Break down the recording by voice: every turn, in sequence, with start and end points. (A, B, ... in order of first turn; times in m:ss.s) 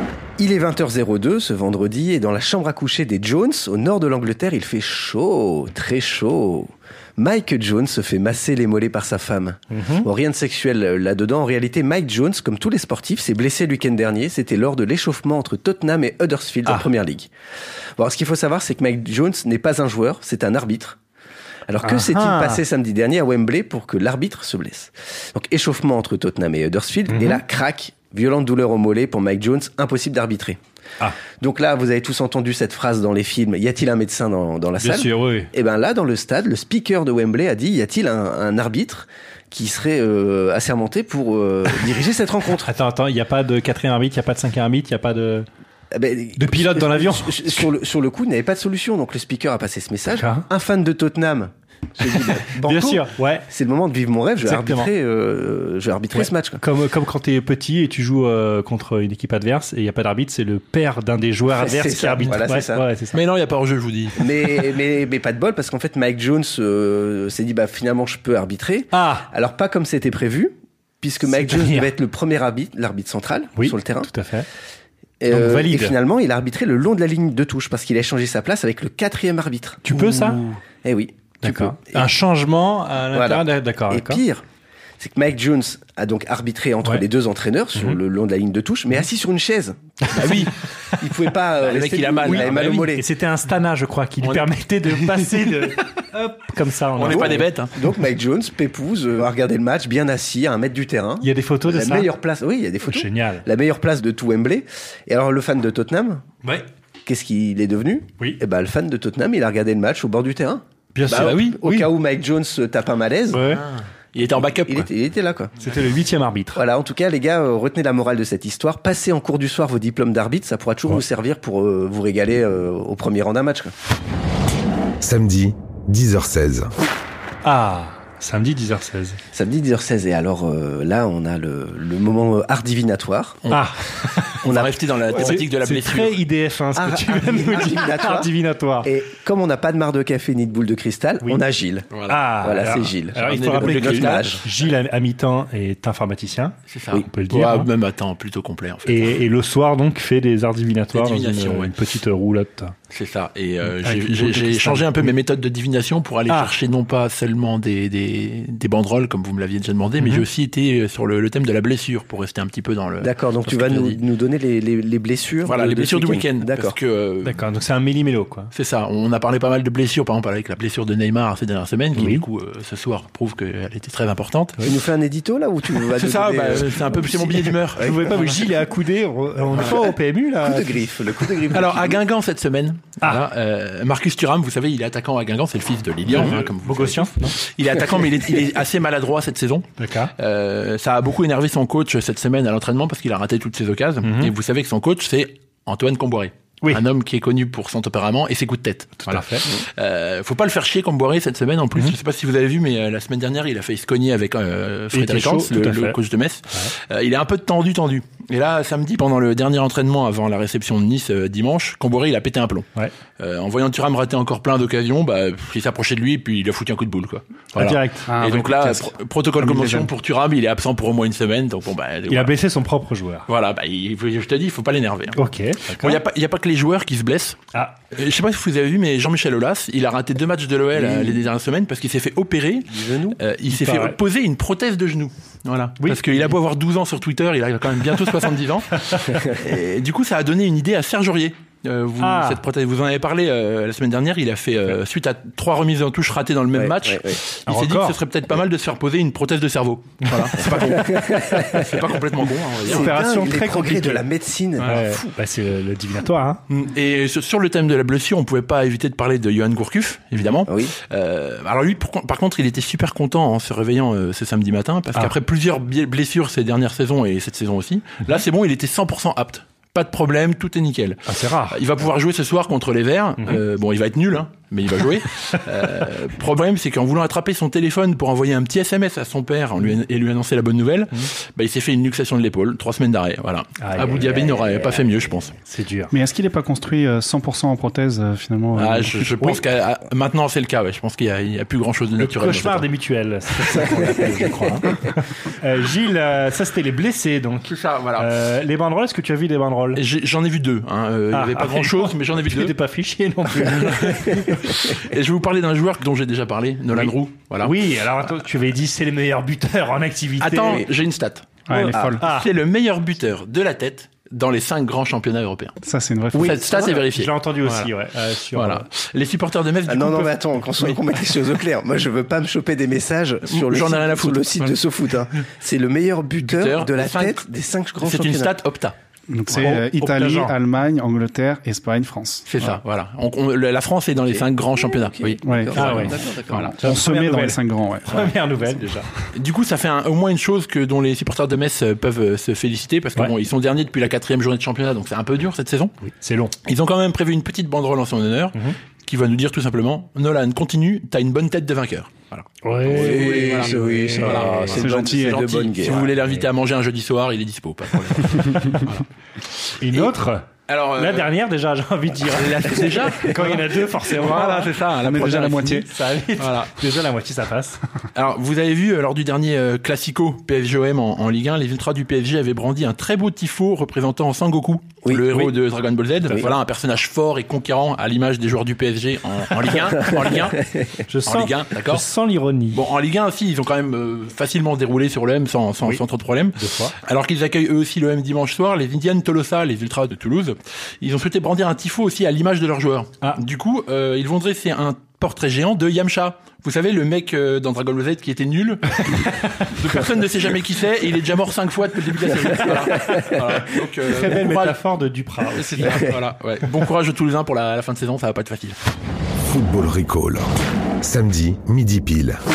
0:00.4-0:17.3 A
0:09.7-0:10.1 B
0:18.0-0:21.0 A
0:21.7-0:30.6 A
0:21.8-0:22.6 B
0:27.1-0:27.4 B
0:31.3-0:42.7 A
0:34.8-0:35.5 B
0:42.6-0:45.5 B
0:45.9-0:56.6 A
0:46.4-0:47.7 B
0:50.2-0:50.5 B
0:52.4-0:53.5 B
0:54.4-0:54.9 B
0:56.1-1:03.2 B
1:01.5-1:02.9 A
1:03.1-1:04.2 C
1:04.2-1:14.1 A
1:08.9-1:09.3 B
1:11.3-1:11.9 B
1:13.6-1:14.4 B
1:15.2-1:22.1 A
1:15.3-1:16.0 B
1:19.8-1:20.4 B
1:21.4-1:24.2 B
1:23.1-1:24.4 A
1:25.0-1:33.1 A
1:30.2-1:30.5 C
1:31.6-1:32.9 C
1:32.3-1:37.5 B
1:34.2-1:35.2 C
1:36.9-1:37.7 C
1:37.0-1:46.2 A
1:41.2-1:42.1 B
1:42.8-1:43.4 B
1:47.0-1:53.4 A
1:50.9-1:51.9 B
1:51.1-1:51.5 C
1:53.3-1:53.6 B
1:53.6-1:54.9 C
1:54.6-1:55.5 A
1:55.6-1:56.6 B
1:56.5-2:03.7 A
2:05.0-2:06.7 D
2:07.4-2:09.2 B
2:09.3-2:13.4 A
2:13.5-2:14.4 B
2:14.4-2:16.2 C
2:14.4-2:15.4 A
2:15.2-2:18.9 B
2:16.7-2:18.3 A
2:18.8-2:24.4 A
2:21.9-2:22.2 C
2:22.1-2:27.7 B
2:23.2-2:24.4 C
2:26.7-2:29.2 C
2:28.9-2:32.7 B
2:30.9-2:31.7 C
2:32.9-2:44.0 C
2:33.8-2:35.1 B
2:43.0-2:46.8 A
2:45.4-2:47.4 C
2:47.2-2:48.5 B
2:48.5-2:54.6 C
2:52.0-2:52.2 B
2:54.6-2:58.2 A
2:55.8-2:57.8 C
2:57.8-3:00.8 B
2:59.5-3:02.0 A
3:01.5-3:42.3 C
3:06.1-3:07.4 B
3:09.8-3:10.1 B
3:14.0-3:14.3 B
3:19.0-3:19.5 B
3:24.9-3:26.0 B
3:37.5-3:38.1 B
3:38.1-3:39.9 E
3:42.1-3:43.2 B
3:43.3-3:47.4 C
3:45.1-3:46.0 B
3:47.9-4:12.9 C
3:50.7-3:51.2 A
3:52.7-3:53.2 A
3:53.5-3:54.0 B
3:55.8-3:56.2 B
4:02.0-4:02.4 B
4:06.5-4:07.2 A
4:07.5-4:08.0 B
4:10.0-4:10.5 B
4:10.5-4:11.7 A
4:12.6-4:15.0 A
4:12.7-4:14.0 B
4:14.6-4:16.4 B
4:16.5-4:45.3 C
4:20.4-4:20.7 A
4:31.0-4:31.6 B
4:43.6-4:44.4 B
4:45.5-4:45.9 B
4:45.9-4:49.3 E
4:48.5-4:52.7 C
4:52.0-4:59.8 B
4:57.5-4:58.1 C
4:59.8-5:02.5 C
5:01.1-5:04.7 B
5:03.4-5:07.5 C
5:07.4-5:10.6 B
5:10.2-5:11.4 C
5:11.5-5:12.0 E
5:11.5-5:12.3 B
5:12.0-5:15.6 C
5:15.6-5:16.6 E
5:16.1-5:17.7 C
5:16.5-5:16.8 A
5:16.9-5:18.6 B
5:18.3-5:20.8 C
5:19.6-5:28.4 A
5:23.3-5:24.6 C
5:26.2-5:27.2 C
5:27.8-5:28.7 C
5:29.1-5:32.6 E
5:29.3-5:30.4 B
5:32.3-5:36.5 C
5:34.1-5:36.5 A
5:35.2-5:38.1 E
5:35.6-5:36.0 B
5:36.6-5:38.9 B
5:39.1-5:45.7 C
5:45.8-5:46.3 B
5:46.4-5:58.8 C
5:52.4-5:54.5 B
5:52.7-5:55.9 A
5:54.5-5:55.3 E
5:59.6-6:07.6 B
6:00.5-6:01.1 C
6:02.1-6:05.7 C
6:04.2-6:05.6 E
6:06.2-6:06.5 C
6:07.9-6:20.4 C
6:14.8-6:15.2 A
6:20.9-6:22.6 B
6:21.0-6:21.8 C
6:22.5-6:44.6 C
6:26.4-6:26.7 B
6:43.8-6:45.9 B
6:45.3-6:48.6 C
6:49.2-6:52.2 D